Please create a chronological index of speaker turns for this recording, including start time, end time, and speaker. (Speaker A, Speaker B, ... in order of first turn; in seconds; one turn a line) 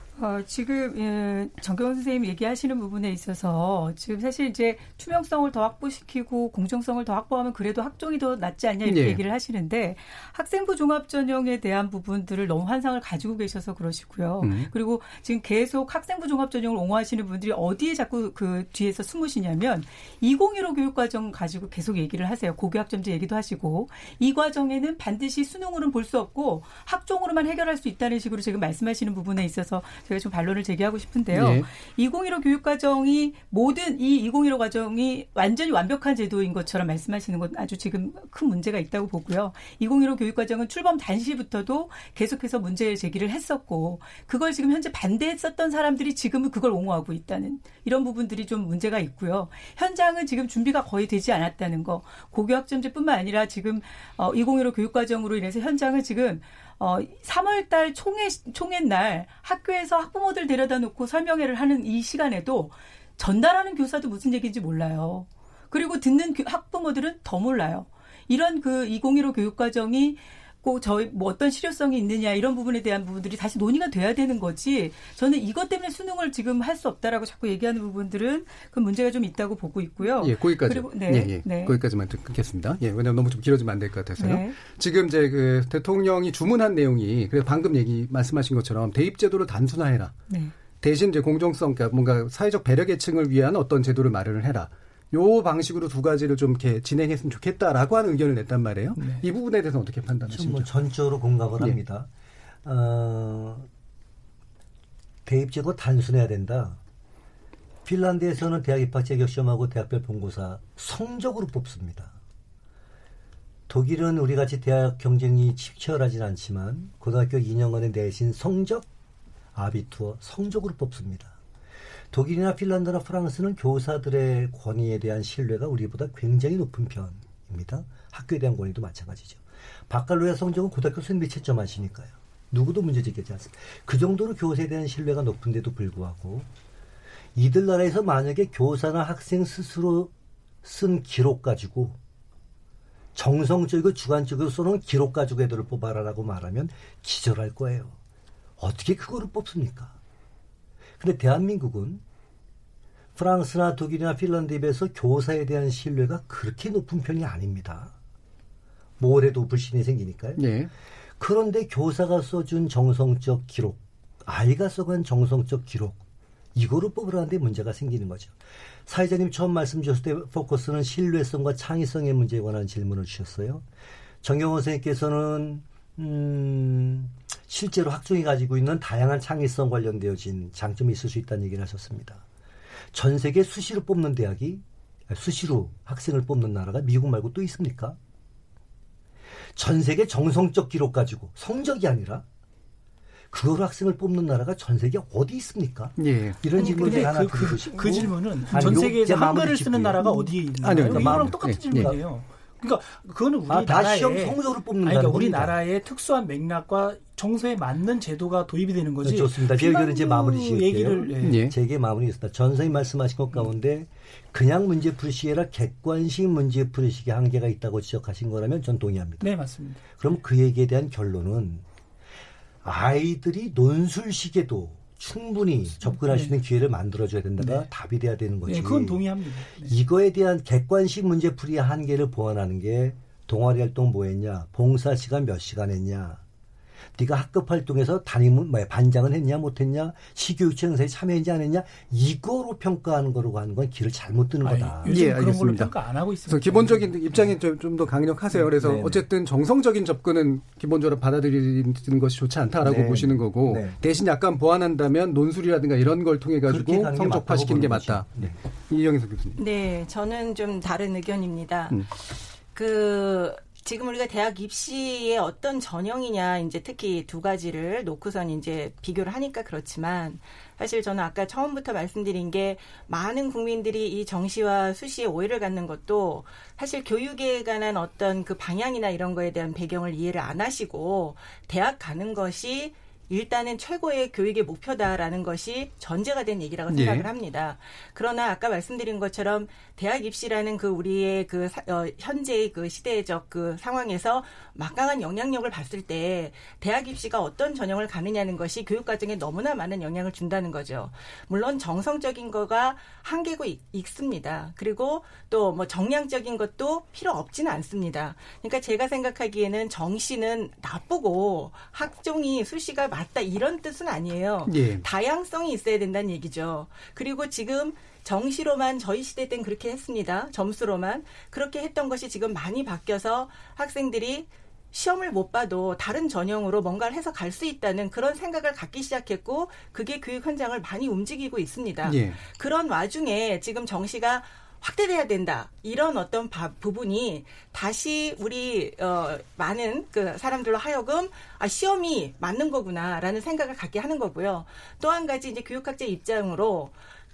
Speaker A: 0.2-81.8
Speaker B: 8.8-9.2
Speaker B: 14.4-14.7
Speaker B: 31.3-31.7
Speaker B: 80.2-90.1
Speaker A: 84.2-84.6
Speaker B: 90.8-100.7
Speaker C: 99.0-99.2
Speaker D: 100.3-102.1
Speaker D: 102.6-103.7
Speaker D: 105.3-106.8
Speaker D: 107.8-112.2
Speaker D: 113.7-118.9
Speaker D: 119.5-121.4
Speaker D: 122.1-136.5
Speaker D: 137.3-140.1
Speaker D: 140.6-142.0
Speaker D: 143.1-147.9
Speaker D: 148.6-149.9
Speaker D: 151.0-152.0
Speaker D: 153.2-157.9
Speaker D: 159.0-160.4
Speaker B: 160.4-160.7
Speaker D: 161.2-166.0
Speaker D: 166.6-168.3
Speaker D: 168.9-173.6
Speaker D: 174.2-182.2
Speaker D: 182.9-188.0
Speaker D: 189.6-192.2
Speaker D: 193.3-201.9
Speaker B: 196.0-196.5
Speaker C: 196.6-211.4
Speaker B: 198.5-198.8
Speaker B: 200.6-201.9
Speaker D: 203.5-205.6
Speaker D: 209.0-219.4
Speaker B: 211.2-211.6
Speaker C: 219.2-219.8
Speaker D: 219.9-221.6
Speaker D: 222.6-236.2
Speaker C: 225.9-226.3
Speaker C: 227.4-227.7
Speaker C: 228.4-229.7
Speaker D: 237.0-245.0
Speaker C: 244.4-247.1
Speaker B: 244.8-259.4
Speaker D: 248.4-249.0
Speaker D: 252.6-253.8
Speaker D: 256.4-258.4
Speaker E: 259.4-261.8
Speaker E: 262.5-346.7
Speaker B: 286.7-287.1
Speaker B: 314.4-314.8
Speaker B: 331.8-332.2